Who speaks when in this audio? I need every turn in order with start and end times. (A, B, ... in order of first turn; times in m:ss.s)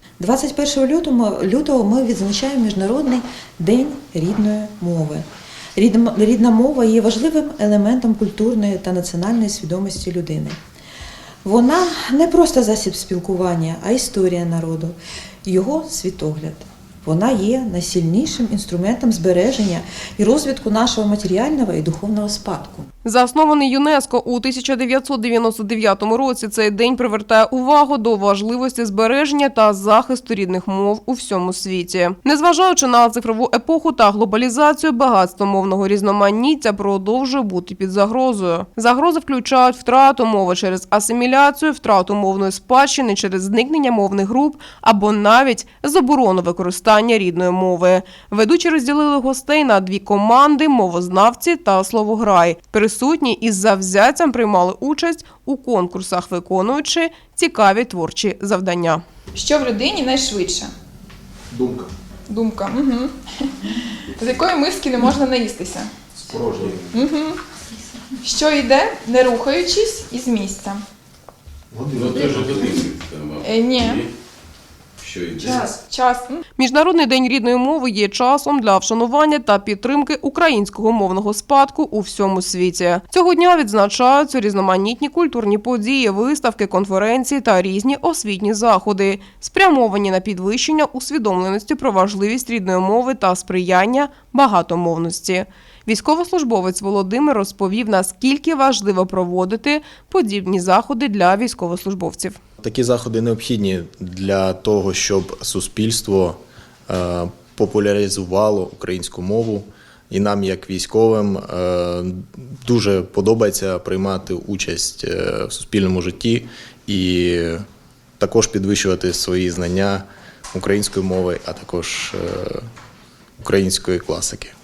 0:00.2-0:10.6 A
0:11.4-0:22.9 A
0:23.0-0:59.0 B
0:59.3-1:00.7 C
1:01.5-1:01.9 D
1:02.3-1:05.9 C
1:06.2-1:07.0 D
1:06.9-1:07.4 C
1:08.2-1:10.8 C
1:11.7-1:12.7 D
1:11.9-1:14.1 E
1:13.4-1:14.0 C
1:15.0-1:15.7 E
1:15.4-1:16.4 C
1:16.6-1:42.4 B
1:42.6-1:57.6 D
1:58.2-2:02.7 D
2:03.4-2:04.5 D